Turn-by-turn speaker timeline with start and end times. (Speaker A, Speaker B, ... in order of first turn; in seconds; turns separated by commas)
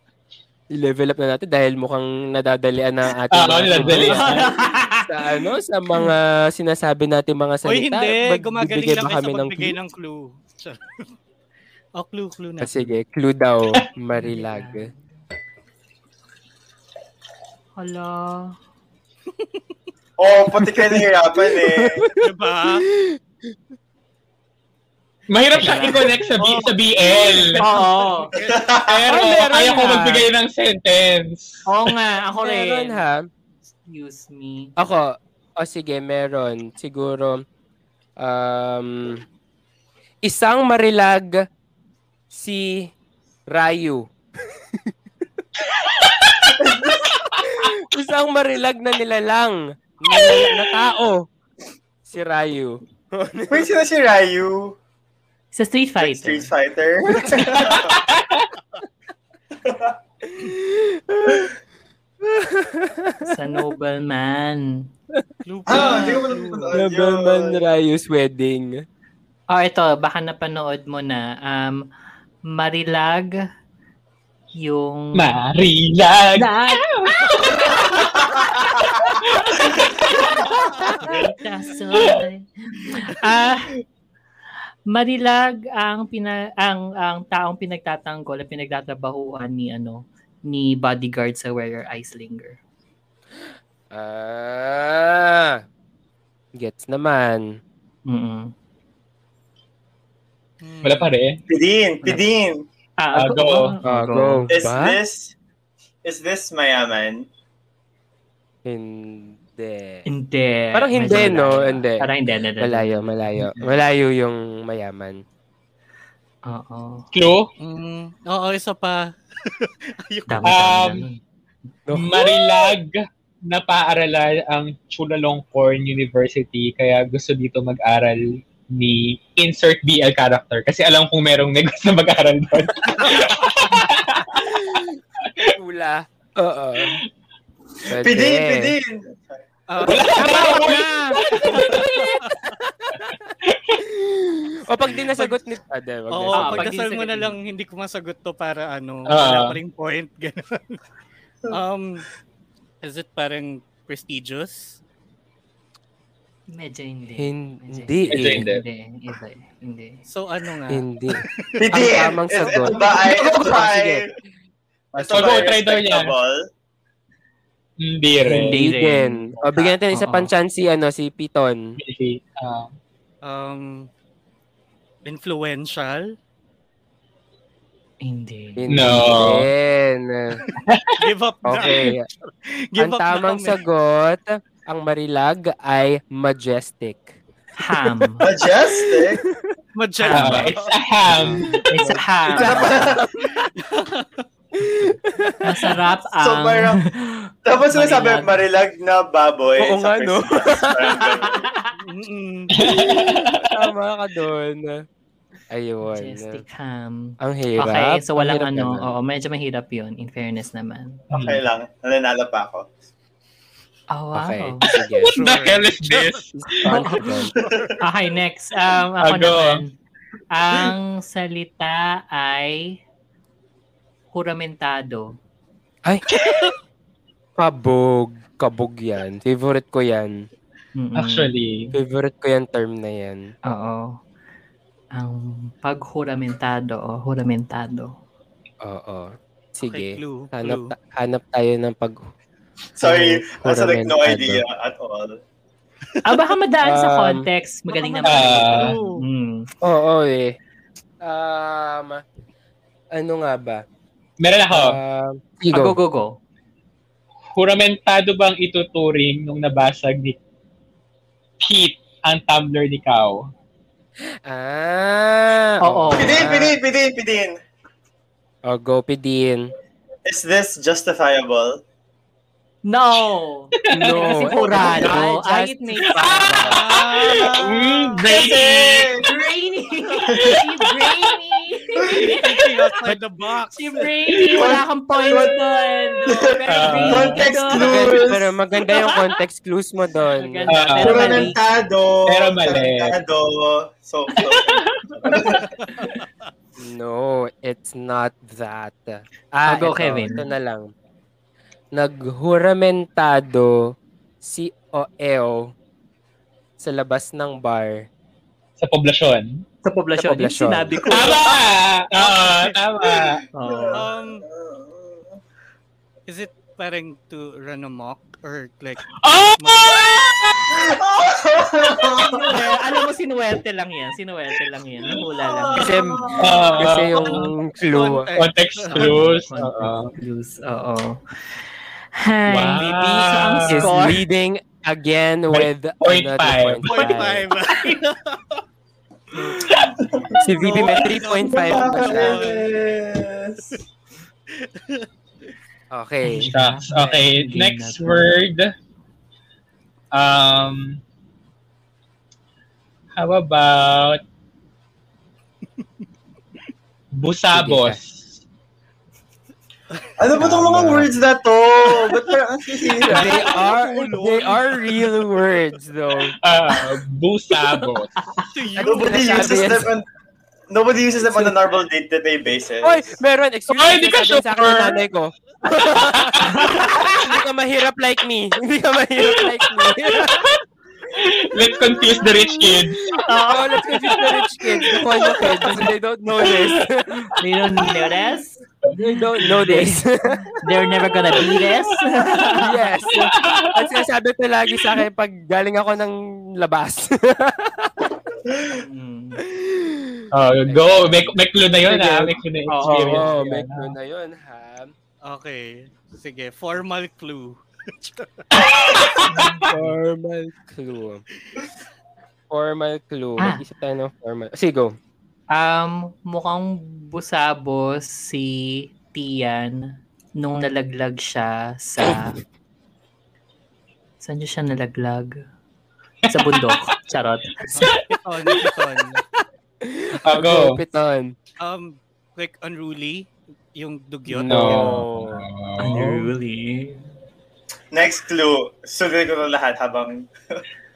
Speaker A: 0.8-4.5, Speaker B: 3.3-4.5, Speaker C: 3.7-5.1, Speaker A: 5.1-9.8, Speaker D: 7.7-10.8, Speaker D: 12.0-12.9, Speaker A: 12.6-14.9, Speaker C: 14.1-15.2, Speaker C: 17.8-18.6, Speaker E: 20.2-22.1, Speaker A: 21.6-22.1, Speaker D: 22.2-22.9, Speaker B: 25.3-27.6, Speaker C: 25.6-26.6, Speaker D: 26.4-28.8, Speaker C: 27.6-28.3, Speaker E: 28.4-29.1, Speaker B: 28.9-31.6, Speaker A: 29.1-30.2, Speaker C: 31.7-33.0, Speaker A: 32.4-33.3, Speaker C: 33.8-34.8, Speaker A: 34.8-37.5, Speaker A: 38.2-39.2, Speaker A: 40.2-41.4, Speaker A: 42.3-42.9, Speaker A: 43.5-44.1, Speaker A: 47.4-51.3, Speaker A: 52.0-53.7, Speaker E: 53.5-54.8, Speaker C: 55.5-56.5, Speaker E: 56.0-58.0, Speaker B: 57.6-58.5, Speaker E: 59.6-60.0, Speaker A: 60.4-61.5, Speaker A: 62.2-63.6, Speaker C: 63.2-64.9, Speaker D: 65.5-66.8, Speaker E: 65.7-67.6, Speaker C: 65.7-66.3, Speaker A: 66.7-68.8, Speaker C: 69.5-71.8, Speaker C: 72.5-73.3, Speaker C: 74.6-75.4, Speaker B: 75.2-80.5, Speaker C: 76.4-76.9, Speaker C: 80.0-80.3, Speaker C: 81.0-83.8, Speaker C: 84.9-92.6, Speaker A: 93.9-95.6, Speaker A: 96.6-97.6, Speaker C: 98.1-98.5, Speaker D: 100.6-101.1, Speaker B: 100.8-101.4, Speaker E: 101.5-102.7, Speaker C: 103.0-104.5, Speaker B: 103.2-103.7, Speaker A: 103.8-105.0, Speaker E: 104.5-105.3, Speaker E: 106.0-107.3, Speaker A: 108.7-110.0, Speaker C: 110.1-113.5, Speaker A: 110.7-112.1, Speaker A: 112.6-115.2, Speaker C: 116.5-117.0, Speaker B: 117.1-117.5, Speaker D: 117.6-120.6, Speaker C: 120.3-121.2, Speaker B: 120.5-121.0, Speaker A: 121.9-122.3, Speaker B: 121.9-134.8, Speaker A: 134.3-137.0, Speaker A: 137.9-138.8, Speaker E: 137.9-140.1, Speaker D: 139.7-140.5, Speaker B: 139.8-141.9, Speaker A: 140.1-146.7, Speaker C: 140.6-141.1, Speaker B: 143.5-143.8, Speaker D: 145.1-145.3, Speaker D: 146.1-150.8, Speaker C: 146.3-147.4, Speaker B: 149.1-149.6, Speaker D: 151.5-152.1, Speaker D: 152.8-154.8, Speaker C: 156.5-160.0, Speaker A: 157.2-158.5, Speaker B: 158.1-158.6, Speaker D: 160.1-161.3, Speaker A: 160.7-164.1, Speaker E: 161.6-164.1, Speaker C: 162.5-162.9, Speaker E: 164.9-166.4, Speaker B: 165.0-166.1, Speaker B: 167.8-168.6, Speaker C: 168.3-170.3, Speaker A: 168.4-171.8, Speaker B: 171.8-172.7, Speaker D: 173.2-173.9, Speaker D: 175.1-176.1, Speaker C: 178.0-178.9, Speaker A: 178.6-180.4, Speaker B: 178.7-179.5, Speaker D: 181.0-183.6, Speaker A: 181.5-182.0, Speaker A: 182.8-189.6, Speaker C: 187.6-188.2, Speaker E: 188.2-189.2, Speaker D: 189.8-190.7, Speaker C: 190.1-190.6, Speaker B: 190.1-191.5, Speaker C: 191.1-192.9, Speaker A: 191.6-193.5, Speaker E: 192.3-193.0, Speaker D: 193.4-194.2, Speaker A: 194.6-195.5, Speaker C: 195.4-198.4, Speaker E: 196.2-196.8, Speaker E: 197.5-201.5, Speaker A: 199.6-201.1, Speaker C: 201.2-201.7, Speaker D: 201.8-202.5, Speaker B: 202.6-203.4, Speaker A: 202.8-204.8, Speaker A: 205.5-206.4, Speaker C: 205.8-211.0, Speaker A: 207.2-209.0, Speaker E: 211.1-212.8, Speaker B: 211.1-211.4, Speaker C: 213.9-214.6, Speaker A: 214.1-215.2, Speaker B: 214.8-216.8, Speaker D: 215.1-217.7, Speaker A: 216.3-217.3, Speaker C: 216.7-217.3, Speaker E: 217.4-217.7, Speaker C: 217.8-219.7, Speaker B: 219.0-219.6, Speaker C: 220.3-222.8, Speaker C: 224.1-225.1, Speaker A: 227.4-230.1, Speaker C: 230.8-231.3, Speaker B: 231.0-231.7, Speaker A: 231.7-233.3, Speaker C: 233.5-234.0, Speaker C: 234.9-237.9, Speaker A: 238.6-242.1, Speaker D: 239.6-240.7, Speaker E: 242.8-245.2, Speaker A: 242.8-244.4, Speaker C: 246.1-249.5, Speaker A: 246.6-247.3, Speaker D: 247.7-249.0, Speaker B: 248.1-248.7, Speaker A: 249.6-250.3, Speaker A: 251.0-252.0, Speaker A: 252.9-253.6, Speaker B: 254.2-254.8, Speaker A: 254.5-255.8, Speaker C: 255.5-256.2, Speaker B: 257.4-260.2, Speaker B: 261.4-263.2, Speaker A: 264.3-266.5, Speaker C: 265.7-266.5, Speaker E: 266.0-267.4, Speaker A: 268.5-269.5, Speaker E: 270.1-271.6, Speaker C: 272.7-276.3, Speaker B: 273.7-274.8, Speaker A: 273.7-276.6, Speaker B: 275.9-279.0, Speaker D: 276.4-277.9, Speaker E: 278.1-279.3, Speaker C: 279.0-282.4, Speaker E: 280.0-280.4, Speaker E: 281.8-282.2, Speaker D: 282.1-283.9, Speaker C: 283.5-287.8, Speaker E: 284.2-285.4, Speaker B: 286.5-287.2, Speaker E: 286.9-288.4, Speaker A: 287.5-290.9, Speaker C: 290.2-291.4, Speaker B: 290.5-291.3, Speaker E: 290.8-295.5, Speaker B: 292.1-293.0, Speaker D: 295.4-296.1, Speaker A: 296.6-300.7, Speaker C: 299.5-300.2, Speaker A: 301.7-305.5, Speaker A: 306.6-307.9, Speaker B: 308.6-309.4, Speaker C: 309.6-311.2, Speaker A: 310.0-310.8, Speaker B: 310.9-313.2, Speaker D: 312.0-312.6, Speaker E: 312.9-315.1, Speaker C: 313.4-313.9, Speaker D: 313.7-314.2, Speaker D: 316.1-318.8, Speaker B: 319.0-320.4, Speaker D: 319.4-319.8, Speaker E: 320.5-322.2, Speaker C: 321.6-325.8, Speaker E: 324.8-326.4, Speaker A: 325.5-328.1, Speaker B: 326.2-327.2, Speaker D: 327.6-328.9, Speaker B: 328.2-329.9, Speaker C: 328.7-331.0, Speaker C: 331.9-334.0, Speaker B: 332.3-333.7, Speaker A: 333.5-337.2, Speaker B: 335.3-336.9, Speaker D: 336.7-338.4, Speaker E: 339.1-343.6, Speaker A: 340.2-342.3, Speaker D: 340.2-342.5, Speaker D: 344.4-344.9, Speaker A: 345.7-346.3, Speaker C: 346.0-348.1, Speaker B: 346.2-348.5, Speaker B: 349.9-350.8, Speaker B: 353.0-354.0, Speaker B: 357.0-358.2, Speaker A: 357.3-357.8, Speaker E: 360.0-363.3, Speaker A: 360.2-360.9, Speaker D: 362.8-364.9, Speaker A: 362.9-366.1, Speaker B: 366.2-367.9, Speaker C: 367.5-368.2, Speaker D: 368.3-369.5, Speaker E: 368.6-369.9, Speaker A: 368.7-369.7, Speaker E: 370.5-372.9, Speaker A: 371.0-371.4, Speaker A: 372.6-380.3, Speaker B: 373.5-374.8, Speaker B: 376.0-376.4, Speaker C: 376.2-376.9, Speaker B: 379.2-380.4, Speaker B: 380.9-382.9, Speaker A: 382.1-387.1, Speaker C: 383.1-383.6, Speaker E: 385.2-385.6, Speaker C: 387.2-388.4, Speaker A: 388.7-390.3, Speaker C: 389.2-389.8, Speaker C: 390.4-392.9, Speaker B: 391.3-391.8, Speaker A: 392.4-397.9, Speaker B: 392.9-393.6, Speaker C: 398.5-399.2, Speaker A: 399.3-404.7, Speaker B: 400.1-403.2, Speaker C: 402.5-403.6, Speaker D: 405.1-408.2, Speaker B: 408.3-409.4, Speaker C: 409.1-409.7, Speaker A: 409.5-411.0, Speaker A: 412.3-414.8, Speaker C: 415.3-419.6, Speaker C: 420.2-422.2, Speaker C: 424.0-425.1, Speaker C: 426.1-427.6, Speaker B: 426.1-426.5, Speaker B: 427.5-428.4, Speaker D: 427.9-429.0, Speaker A: 429.6-431.2, Speaker B: 430.1-430.6, Speaker D: 431.4-434.9, Speaker A: 434.1-435.3, Speaker B: 434.3-436.0, Speaker C: 435.6-436.8, Speaker E: 437.7-440.1